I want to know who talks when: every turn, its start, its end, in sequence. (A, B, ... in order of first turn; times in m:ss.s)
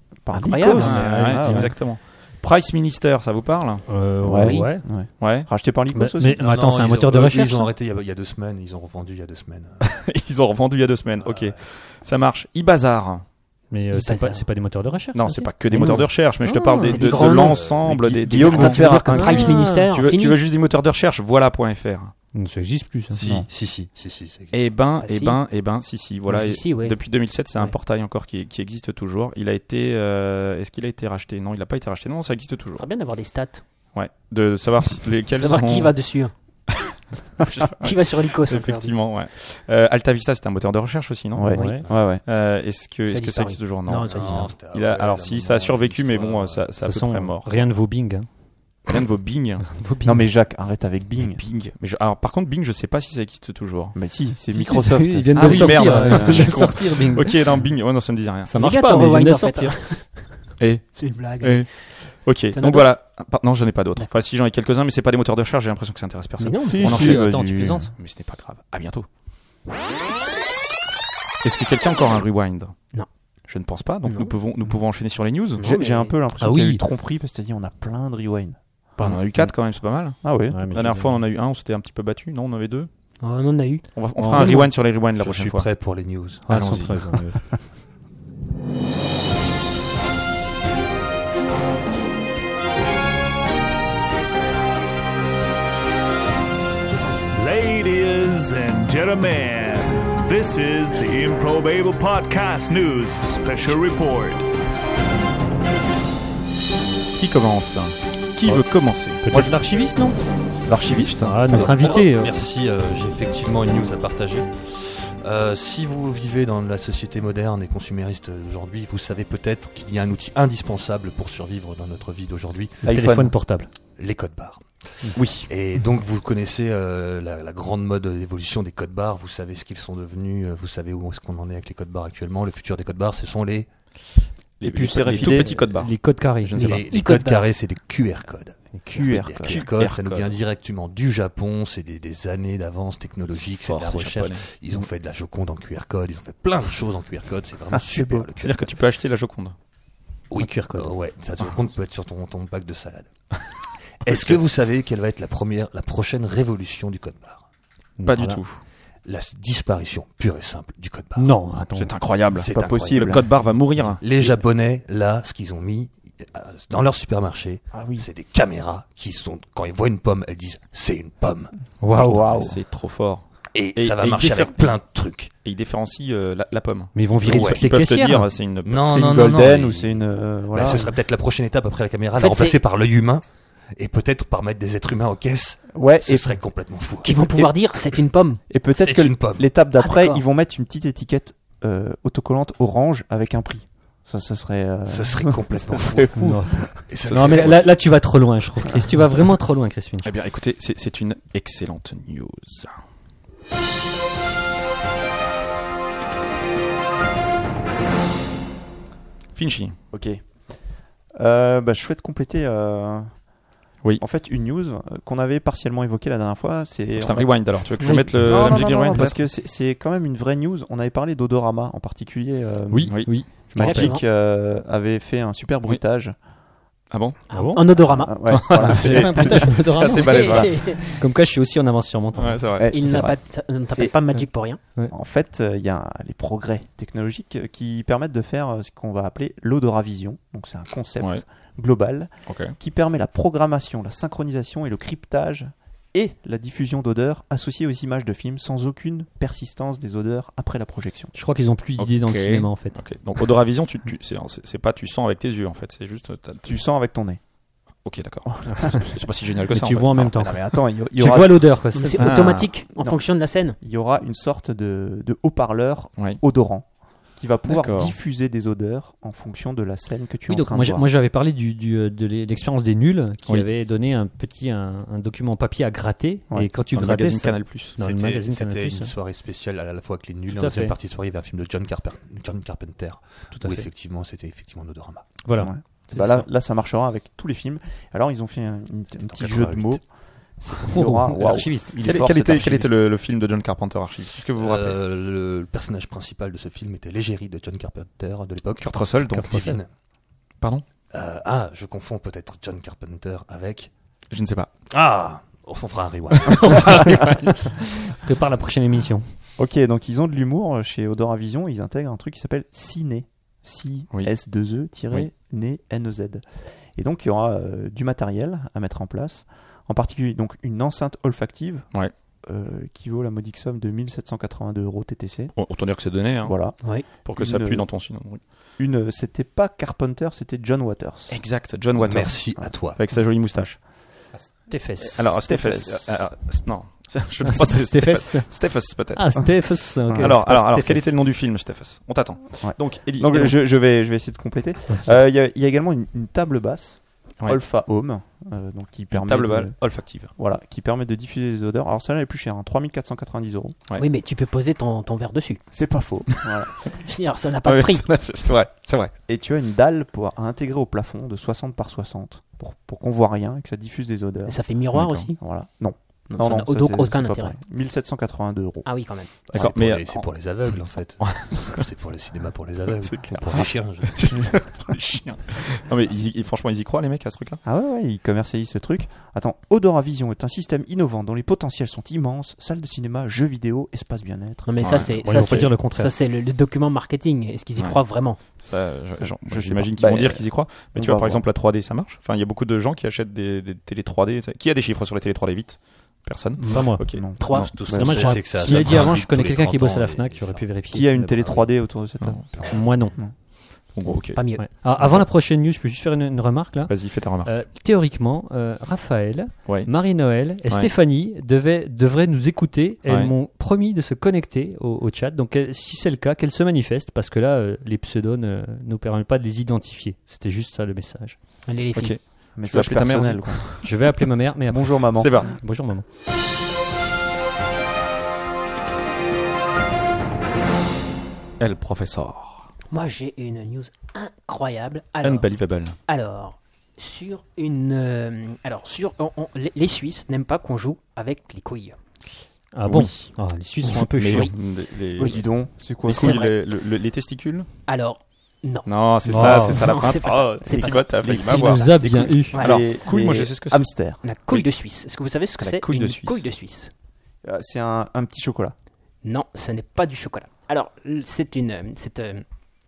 0:00.1-0:01.8 A
0:00.3-0:01.1 B
0:00.7-0:03.9 C
0:00.7-0:01.7 D
0:03.9-0:04.8 D
0:04.2-0:06.4 A
0:04.4-0:04.7 B
0:05.2-0:05.5 C
0:05.9-0:07.7 D
0:06.3-0:09.8 E
0:09.8-0:13.2 C
0:11.2-0:11.6 E
0:13.7-0:17.0 D
0:13.9-0:14.4 B
0:15.1-0:19.0 C
0:15.7-0:16.1 B
0:16.7-0:17.7 B
0:17.2-0:18.2 E
0:17.8-0:19.6 A
0:18.4-0:20.4 B
0:18.9-0:19.9 D
0:19.7-0:22.1 C
0:22.3-0:23.2 D
0:23.1-0:24.7 E
0:23.2-0:23.5 A
0:24.5-0:32.8 C
0:25.0-0:25.4 B
0:26.3-0:27.7 B
0:32.8-0:33.6 B
0:33.9-0:36.0 C
0:35.4-0:36.3 B
0:36.7-0:47.7 C
0:37.8-0:38.9 B
0:41.3-0:42.2 A
0:41.5-0:41.8 D
0:43.1-0:44.6 B
0:44.1-0:46.7 E
0:46.8-0:48.3 D
0:48.9-0:49.8 C
0:49.7-0:50.3 D
0:50.0-0:51.4 A
0:51.2-0:54.0 C
0:53.9-0:56.7 A
0:54.5-0:57.4 D
0:55.3-0:58.5 C
0:55.6-0:56.1 B
0:58.5-0:59.8 D
0:58.5-1:02.9 B
1:00.6-1:07.3 C
1:06.4-1:06.9 B
1:06.6-1:07.9 A
1:06.8-1:07.9 D
1:08.0-1:09.1 C
1:11.4-1:12.9 C
1:13.5-1:15.7 C
1:14.0-1:14.3 B
1:15.6-1:16.2 B
1:15.6-1:19.5 A
1:16.4-1:16.8 D
1:19.0-1:22.9 C
1:20.2-1:20.7 A
1:20.5-1:21.2 D
1:23.2-1:24.0 B
1:23.9-1:25.7 C
1:24.2-1:24.6 D
1:24.4-1:26.8 E
1:26.4-1:27.4 D
1:26.5-1:27.0 C
1:37.3-1:44.4 F
1:47.1-1:49.6 C
1:49.2-1:50.2 D
1:50.6-1:51.7 C
1:50.9-1:52.4 D
1:51.5-2:02.8 E
2:02.8-2:03.3 A
2:02.9-2:03.7 D
2:04.0-2:13.7 E
2:05.2-2:05.5 C
2:14.6-2:16.8 C
2:14.6-2:15.6 A
2:15.1-2:16.6 D
2:16.6-2:17.4 B
2:16.6-2:28.7 E
2:18.7-2:19.2 D
2:18.9-2:19.6 A
2:19.4-2:20.3 C
2:23.4-2:24.5 C
2:27.7-2:28.3 A
2:28.4-2:29.5 C
2:30.3-2:33.1 E
2:30.4-2:31.0 D
2:34.0-2:37.4 E
2:34.1-2:34.4 C
2:38.0-2:38.4 D
2:38.0-2:38.6 C
2:39.0-2:41.4 E
2:41.2-2:41.9 D
2:41.7-2:44.0 C
2:42.3-2:51.5 E
2:42.5-2:43.3 A
2:47.7-2:48.1 A
2:51.8-2:52.3 D
2:51.9-2:52.6 A
2:52.1-2:54.8 C
2:53.5-2:55.3 E
2:55.4-2:58.9 C
2:56.9-2:58.3 D
2:57.2-2:57.7 E
2:58.6-3:03.2 E
2:58.8-3:00.9 A
3:02.2-3:02.6 B
3:03.7-3:07.2 E
3:05.7-3:06.5 A
3:07.0-3:08.4 B
3:07.1-3:07.5 A
3:08.5-3:16.7 A
3:08.7-3:09.5 E
3:09.7-3:10.2 B
3:14.8-3:17.8 E
3:16.2-3:20.1 D
3:17.2-3:17.5 C
3:20.0-3:22.7 C
3:29.3-3:29.8 C
3:29.9-3:30.6 A
3:31.1-3:33.3 A
3:34.0-3:46.1 A
3:37.0-3:39.3 C
3:37.8-3:39.0 D
3:42.7-3:43.5 C
3:43.0-3:43.9 D
3:43.6-3:44.0 B
3:46.9-3:47.2 C
3:47.3-3:48.3 B
3:47.3-3:47.6 D
3:47.8-3:50.5 A
3:48.3-3:50.8 C
3:48.5-3:52.5 D
3:49.9-3:50.8 B
3:52.1-3:52.7 C
3:52.6-3:53.2 A
3:52.7-3:54.7 B
3:54.9-4:11.1 A
4:02.3-4:02.6 C
4:11.1-4:12.8 D
4:11.8-4:16.5 C
4:16.4-4:17.2 A
4:17.8-4:20.4 C
4:18.3-4:18.9 A
4:19.5-4:22.4 D
4:20.2-4:21.5 A
4:21.7-4:23.6 B
4:22.0-4:22.6 C
4:22.8-4:23.0 A
4:23.6-4:30.9 A
4:27.4-4:28.0 C
4:30.3-4:38.9 D
4:36.7-4:37.8 C
4:37.8-4:45.1 E
4:40.3-4:40.8 D
4:43.3-4:43.7 D
4:45.2-4:46.2 D
4:45.4-4:52.7 A
4:49.0-4:49.8 E
4:50.6-4:51.8 D
4:51.8-4:54.8 C
4:54.4-4:59.7 E
4:58.6-4:59.6 C
4:59.1-4:59.6 D
5:00.9-5:03.7 E
5:04.1-5:04.5 C
5:04.7-5:07.3 E
5:06.1-5:07.4 C
5:07.9-5:09.0 D
5:09.4-5:25.4 A
5:25.3-5:28.2 C
5:26.2-5:27.7 A
5:26.6-5:26.9 B
5:28.6-5:31.2 A
5:31.1-5:33.6 C
5:31.8-5:32.8 E
5:34.1-5:35.0 D
5:34.9-5:43.4 C
5:35.2-5:36.0 A
5:37.2-5:40.9 D
5:39.8-5:40.1 A
5:42.4-5:53.6 A
5:48.9-5:50.1 C
5:53.8-5:55.4 B
5:55.5-5:56.7 A
5:56.7-5:58.0 B
5:57.4-5:58.9 C
5:59.1-6:04.5 A
6:04.2-6:05.2 B
6:04.7-6:05.1 C
6:05.2-6:08.7 A
6:06.1-6:07.4 B
6:08.6-6:09.2 B
6:09.3-6:14.4 E
6:09.3-6:11.6 C
6:12.8-6:17.4 C
6:17.4-6:25.0 A
6:24.4-6:28.3 B
6:24.6-6:25.5 C
6:25.0-6:25.9 D
6:27.6-6:37.1 C
6:29.0-6:31.2 A
6:36.4-6:41.7 D
6:36.6-6:38.1 A
6:37.2-6:38.1 B
6:37.2-6:40.5 E
6:38.4-6:38.9 C
6:40.7-6:43.1 A
6:42.5-6:43.0 D
6:43.7-6:44.2 C
6:44.1-6:44.4 B
6:44.4-7:01.2 D
6:46.7-6:47.4 C
6:49.4-6:50.7 C
6:52.8-6:53.1 C
7:01.4-7:02.2 B
7:01.7-7:03.7 C
7:02.3-7:03.6 A
7:03.6-7:05.8 D
7:04.5-7:05.3 A
7:04.9-7:05.4 C
7:11.4-7:12.5 C
7:12.7-7:15.3 B
7:15.0-7:15.8 C
7:15.8-7:21.8 B
7:22.5-7:24.3 D
7:22.6-7:25.2 C
7:24.1-7:24.4 B
7:25.0-7:25.2 B
7:25.0-7:26.2 A
7:25.8-7:27.5 C
7:25.9-7:26.3 B
7:27.7-7:31.0 B
7:28.7-7:31.8 C
7:29.0-7:29.7 D
7:30.5-7:34.0 A
7:31.2-7:32.4 D
7:32.3-7:32.7 B
7:32.4-7:33.6 C
7:34.0-7:36.7 B
7:35.4-7:36.2 C
7:37.2-7:38.5 A
7:39.0-7:42.2 B